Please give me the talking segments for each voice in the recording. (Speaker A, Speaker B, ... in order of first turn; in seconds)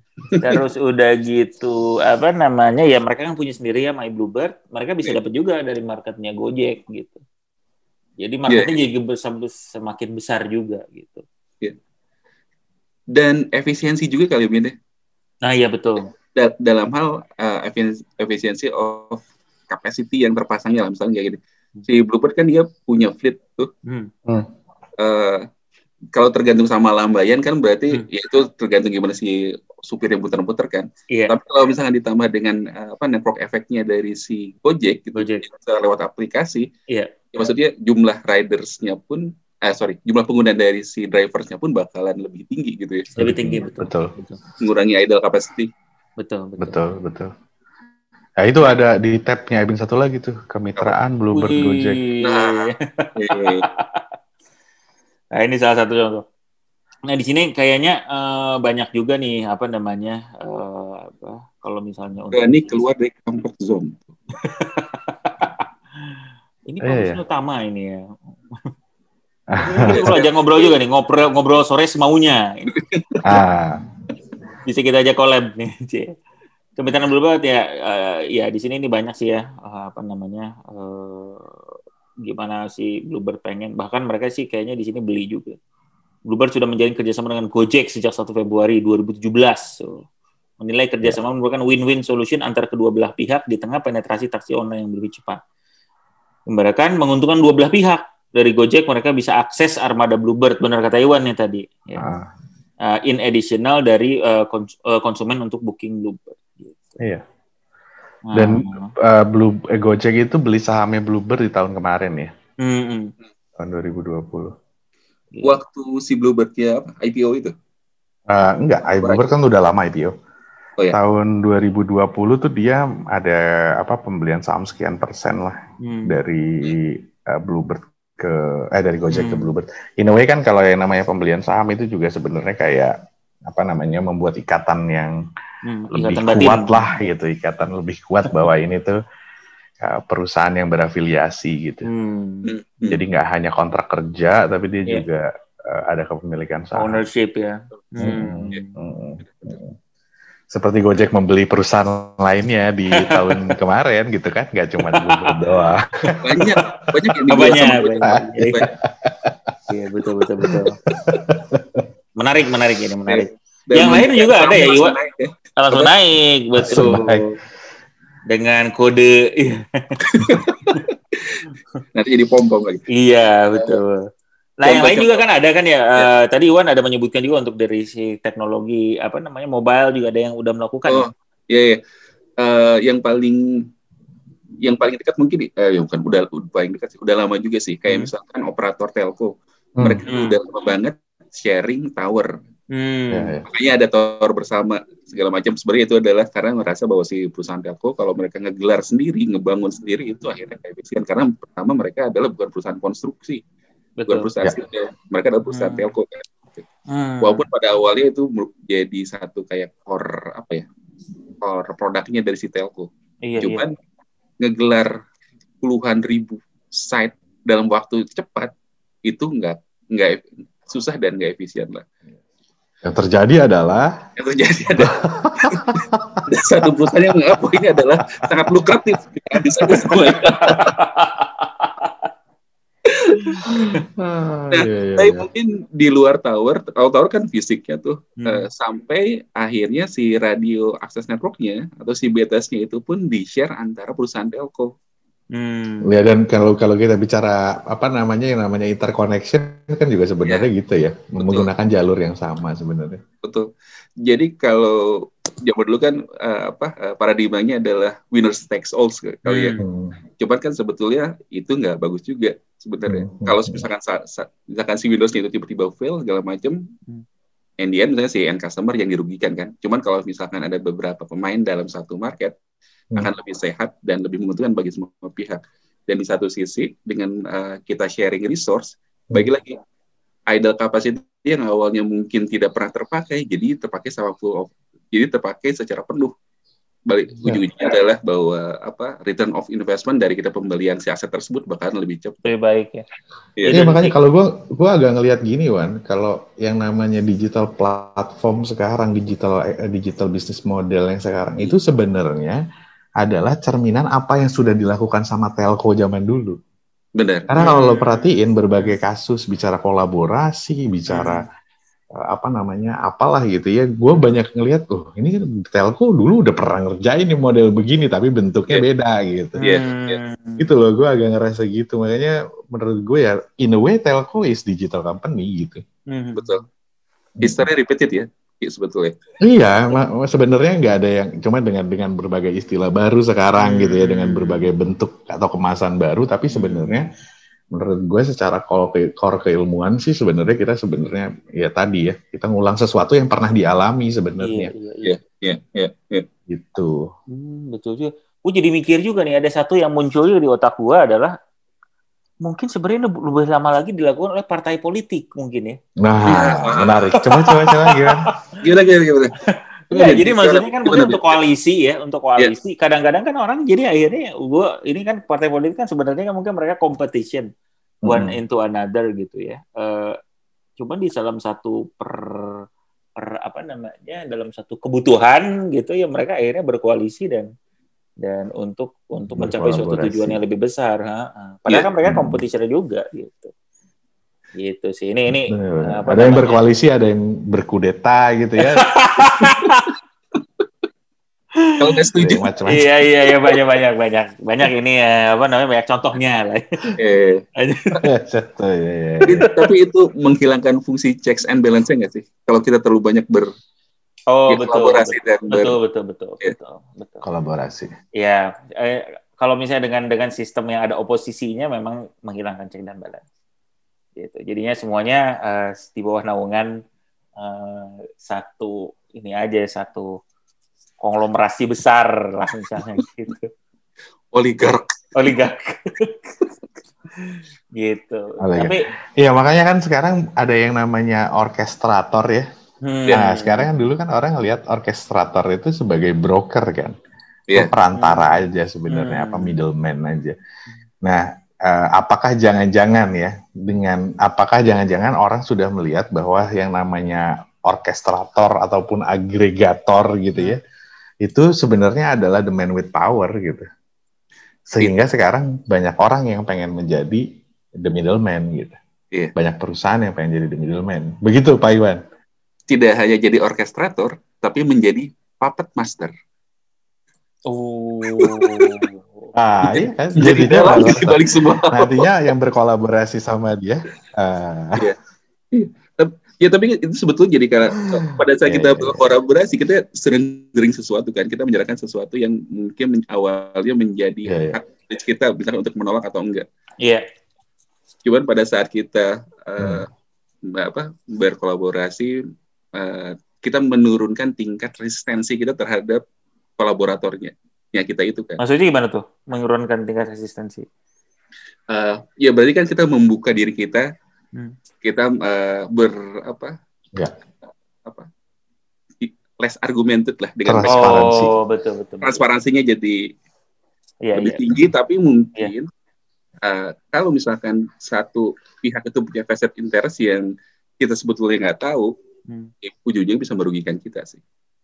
Speaker A: 0.4-7.2, 8.2-11.2, 15.4-16.1, 23.9-24.1, 31.1-31.3, 35.1-35.5, 36.9-37.1, 43.1-44.4, 46.2-46.8, 51.3-54.1, 55.3-56.2, 57.1-62.8, 64.4-66.1, 66.7-68.7, 69.6-72.7, 74.6-76.1, 76.8-81.6, 82.2-85.6, 86.3-90.0, 90.6-95.4, 96.5-102.0, 102.8-107.0, 108.3-108.9, 112.6-113.1, 125.8-126.2, 129.1-129.5, 135.6-136.9, 141.8-142.5, 146.8-148.8, 152.9-153.4, 154.8-155.4, 156.0-156.6, 157.3-158.6, 159.7-160.8, 162.2-164.9, 165.6-167.3, 168.3-170.0, 172.9-174.0, 174.6-181.1, 190.1-190.4, 192.7-193.4, 204.0-204.3, 205.5-205.9, 206.9-207.5, 213.2-213.7, 229.6-231.9, 238.2-238.5, 245.3-245.9, 259.2-259.6, 292.2-292.8, 293.4-293.9, 307.4-308.1, 310.9-311.3, 319.4-320.5, 325.9-326.4, 333.4-334.4, 336.3-336.8, 344.2-345.0, 347.1-351.1, 352.2-355.6, 357.0-358.1, 359.2-367.3, 367.9-370.0, 370.6-372.4, 373.0-377.3, 378.0-383.3, 384.3-386.4, 388.5-389.7, 391.4-391.8, 392.4-396.6, 397.4-397.8, 399.2-399.4, 404.1-407.0, 408.0-413.0, 414.0-416.6, 417.2-420.0, 420.8-423.3, 424.9-426.2, 427.0-428.6, 432.6-433.5, 437.7-439.4, 467.3-469.1, 498.2-500.4, 510.4-512.0, 513.8-514.2
Speaker B: 13.1-14.7, 16.3-23.7, 25.0-25.4, 26.1-36.7, 37.3-43.1, 44.6-45.7, 52.2-53.6, 62.3-64.1, 69.9-70.8, 72.7-73.1, 115.4-117.5, 119.0-119.3, 142.4-143.0, 148.0-148.6, 149.2-149.5, 156.2-158.7, 163.1-165.8, 166.7-167.0, 170.0-171.4, 171.9-172.8, 174.6-175.2, 180.9-181.8, 182.4-183.4, 184.6-192.3, 193.5-203.4, 204.1-206.4, 207.2-210.7, 211.4-212.9, 213.4-213.7, 214.4-214.9, 215.6-218.5, 219.1-221.8, 224.2-230.7, 232.9-233.7, 234.5-244.7, 251.2-251.5, 253.2-253.5, 254.0-259.6, 260.2-266.6, 267.6-272.4, 272.9-279.6, 280.3-286.1, 286.9-292.2, 293.4-293.7, 307.0-307.5, 319.4-320.0, 326.1-326.4, 327.2-328.9, 344.8-346.1, 356.1-356.9, 358.4-359.1, 359.7-361.2, 391.6-392.2, 396.8-397.2, 399.1-403.3, 404.3-405.6, 424.1-424.9, 462.5-465.9, 467.9-468.5, 469.5-471.9, 475.3-486.2, 487.8-489.7, 490.2-492.0, 492.5-495.8, 496.4-498.2, 501.5-503.6, 504.6-506.3, 508.8-510.8, 511.8-512.8, 513.9-515.5, 516.2-520.1, 520.6-521.7, 522.4-524.0
Speaker C: 43.2-44.1, 46.6-47.3, 48.4-52.0, 66.8-67.2, 69.5-70.1, 73.2-73.8, 102.0-102.3, 108.3-112.3, 113.6-114.5, 118.3-120.1, 120.9-132.9, 133.5-135.2, 135.9-139.0, 139.8-141.9, 142.9-147.0, 148.0-149.7, 150.5-156.2, 158.8-159.5, 160.5-161.9, 166.6-167.3, 193.1-193.4, 222.8-223.9, 224.8-226.2, 233.4-235.3, 245.8-253.0, 259.6-259.9, 262.9-263.6, 293.5-302.4, 303.0-306.4, 307.3-311.2, 312.0-319.4, 320.4-325.6, 327.2-327.5, 329.2-336.9, 337.5-344.5, 346.3-346.9, 355.8-358.1, 367.8-368.2, 379.2-380.2, 381.8-382.2, 385.3-388.7, 392.0-392.7, 397.8-399.3, 407.0-407.7, 428.2-432.3, 432.9-436.7, 437.3-440.2, 440.8-450.4, 451.0-453.4, 454.5-457.0, 457.6-458.6, 459.1-461.8, 469.1-474.7, 477.7-478.8, 484.1-484.4, 489.4-489.6, 510.2-511.1